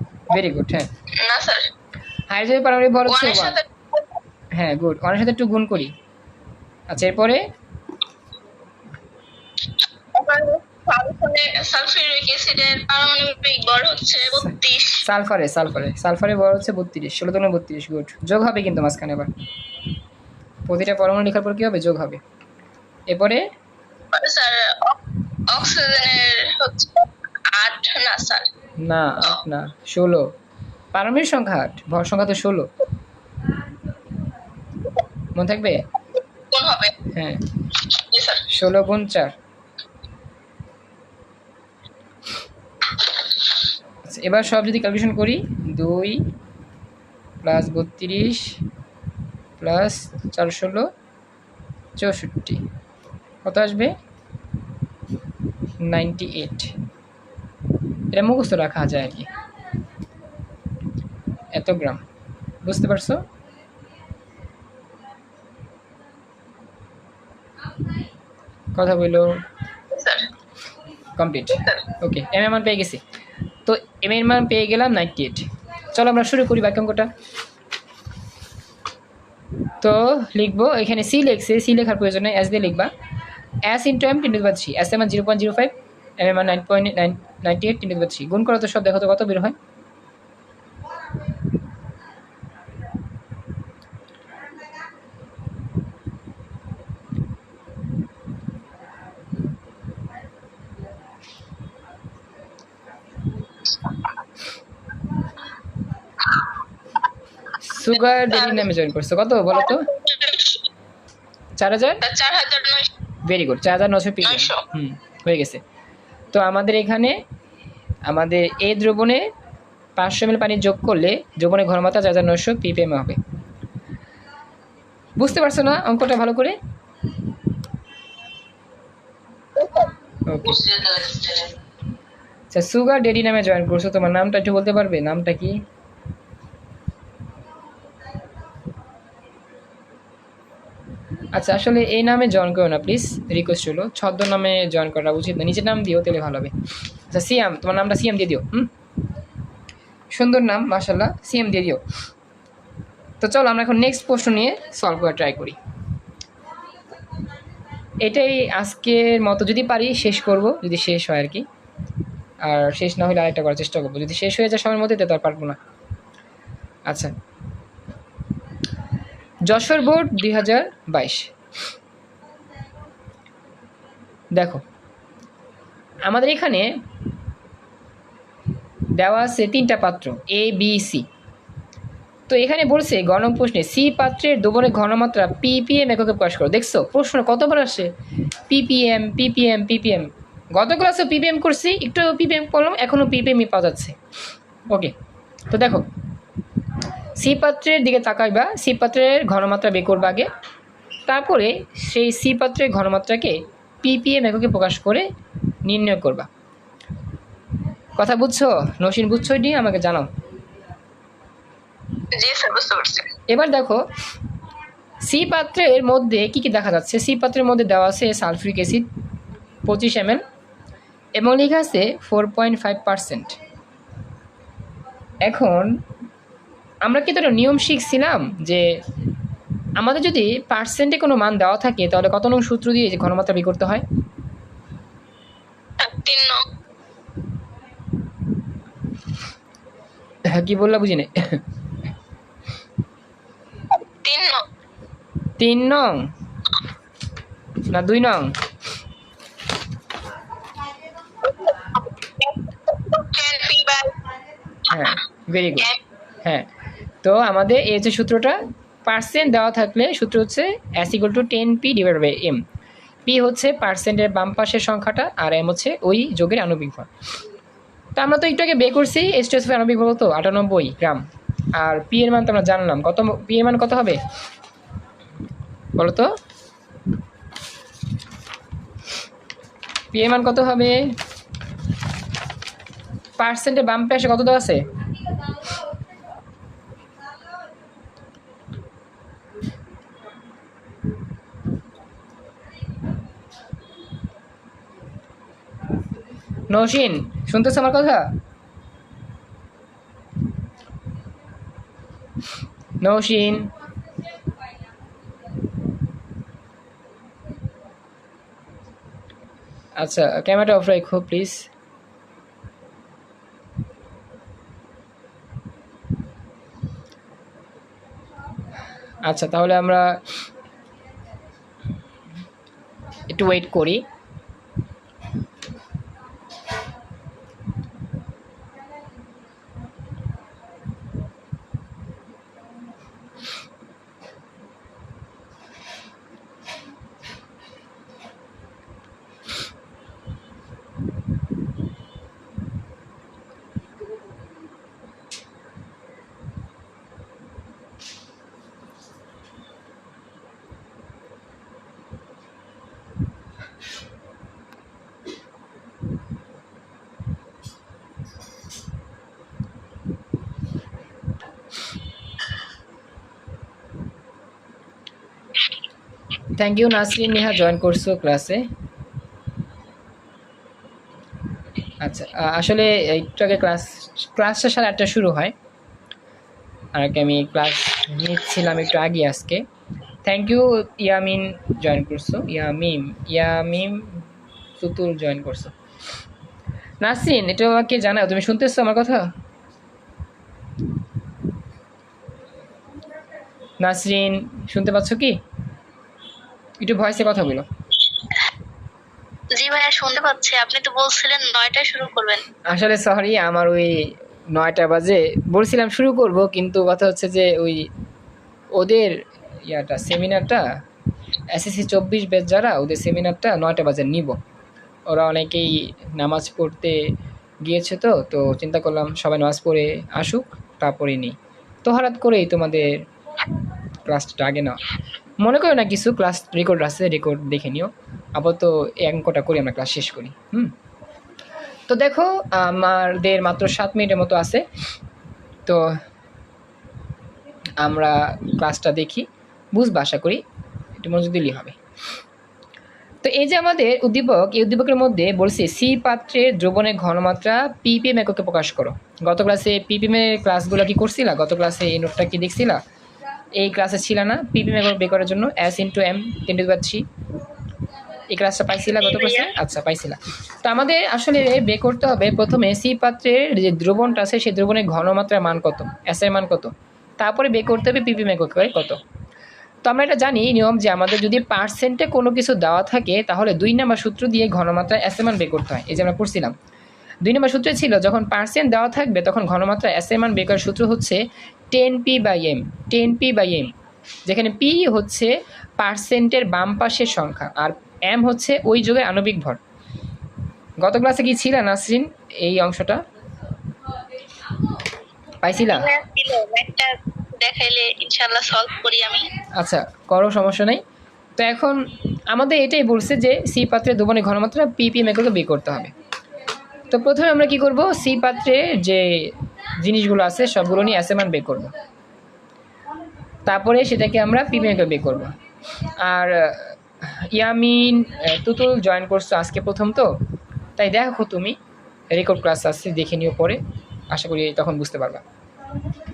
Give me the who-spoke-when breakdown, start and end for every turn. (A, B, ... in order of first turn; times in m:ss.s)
0:00.3-0:00.9 A
0:01.2-0:01.7 B
0:02.3-0:03.6 A
0:03.1-0:04.0 B
0:04.5-0:05.9 A
0:06.9-0:07.4 A
0:10.1-0:15.0 B
0:15.0-0:19.3 A
0:20.6-0:22.2 A
0:23.1-0:23.4 A
0:24.1-0:28.5 B
0:28.8-0:30.3 A
0:30.9-0:32.7 A
0:35.3-0:35.8 A
0:36.5-0:36.9 B
0:37.1-0:37.4 A
0:37.8-0:38.5 B
0:38.5-0:39.3 A
0:44.0-0:46.2 A
0:47.4-0:48.6 A
0:49.6-0:50.9 A
0:52.0-0:52.6 A
0:53.4-0:53.9 A
0:55.8-0:56.7 A
0:58.1-0:59.3 A
1:01.5-1:02.0 A
1:02.6-1:03.2 A
1:08.7-1:09.3 A
1:09.9-1:10.3 B
1:11.1-1:13.0 A
1:11.6-1:11.8 B
1:13.6-1:17.1 A
1:19.8-1:22.9 A
1:23.6-1:29.6 A
1:47.6-1:49.9 A
1:48.3-1:48.7 B
1:49.6-1:50.6 B
1:51.6-1:52.0 A
1:52.0-1:52.9 B
1:53.2-1:55.6 A
1:54.2-1:54.6 B
1:56.3-1:57.2 A
1:58.1-1:59.3 A
2:00.0-2:03.2 A
2:05.2-2:06.6 A
2:09.6-2:09.9 B
2:10.3-2:10.7 A
2:10.4-2:11.5 B
2:12.5-2:15.6 A
2:21.3-2:26.5 A
2:27.1-2:28.7 A
2:30.1-2:31.8 A
2:33.2-2:35.6 A
2:38.0-2:41.4 A
2:42.4-2:45.6 A
2:49.4-2:51.3 A
2:54.4-2:54.6 A
2:56.0-2:56.7 A
2:58.9-3:01.0 A
3:02.3-3:07.9 A
3:08.5-3:14.0 A
3:15.5-3:15.9 A
3:17.2-3:20.3 A
3:21.1-3:25.0 A
3:25.6-3:26.3 A
3:28.0-3:30.1 A
3:32.1-3:33.1 B
3:33.3-3:33.8 A
3:35.0-3:38.9 A
3:39.6-3:40.2 A
3:41.2-3:43.4 A
3:45.2-3:45.7 A
3:46.8-3:48.7 A
3:49.8-3:53.8 A
3:55.8-3:56.4 B
4:00.3-4:01.4 A
4:04.0-4:04.4 B
4:05.4-4:06.1 A
4:07.6-4:08.4 A
4:12.0-4:14.0 B
4:14.7-4:15.7 A
4:14.7-4:15.0 B
4:16.2-4:16.5 A
4:17.0-4:22.4 A
4:23.0-4:26.9 A
4:28.0-4:31.0 A
4:31.6-4:34.0 A
4:35.8-4:36.1 A
4:39.9-4:40.9 A
4:43.2-4:44.6 A
4:56.5-4:58.2 A
5:02.8-5:03.5 A
5:09.8-5:11.5 A
5:19.0-5:20.0 A
5:23.1-5:23.8 A
6:06.3-6:08.5 A
6:11.8-6:15.3 A
6:16.7-6:19.4 A
6:20.0-6:24.0 A
6:24.6-6:25.5 A
6:26.8-6:29.1 A
6:33.6-6:35.2 A
6:36.6-6:37.4 A
6:39.3-6:42.2 B
6:42.5-6:43.8 A
6:44.3-6:47.7 A
6:48.6-6:49.0 A
6:49.5-6:50.4 A
6:51.3-6:54.2 A
6:54.9-6:56.8 A
6:57.4-7:02.8 A
7:03.8-7:04.6 A
7:05.2-7:10.5 A
7:11.7-7:14.4 A
7:15.4-7:15.7 A
7:17.6-7:20.2 A
7:20.8-7:21.6 A
7:23.0-7:32.6 A
7:33.4-7:36.8 A
7:38.1-7:48.8 A
7:38.6-7:39.3 B
7:49.6-7:56.3 A
7:57.0-8:03.5 A
8:04.0-8:09.4 A
8:10.6-8:12.8 A
8:15.2-8:15.7 A
8:15.4-8:19.1 B
8:19.4-8:20.6 A
8:21.2-8:21.6 A
8:22.1-8:25.7 A
8:26.7-8:31.5 A
8:33.3-8:35.2 A
8:35.8-8:39.9 A
8:40.6-8:41.4 A
8:41.9-8:45.0 A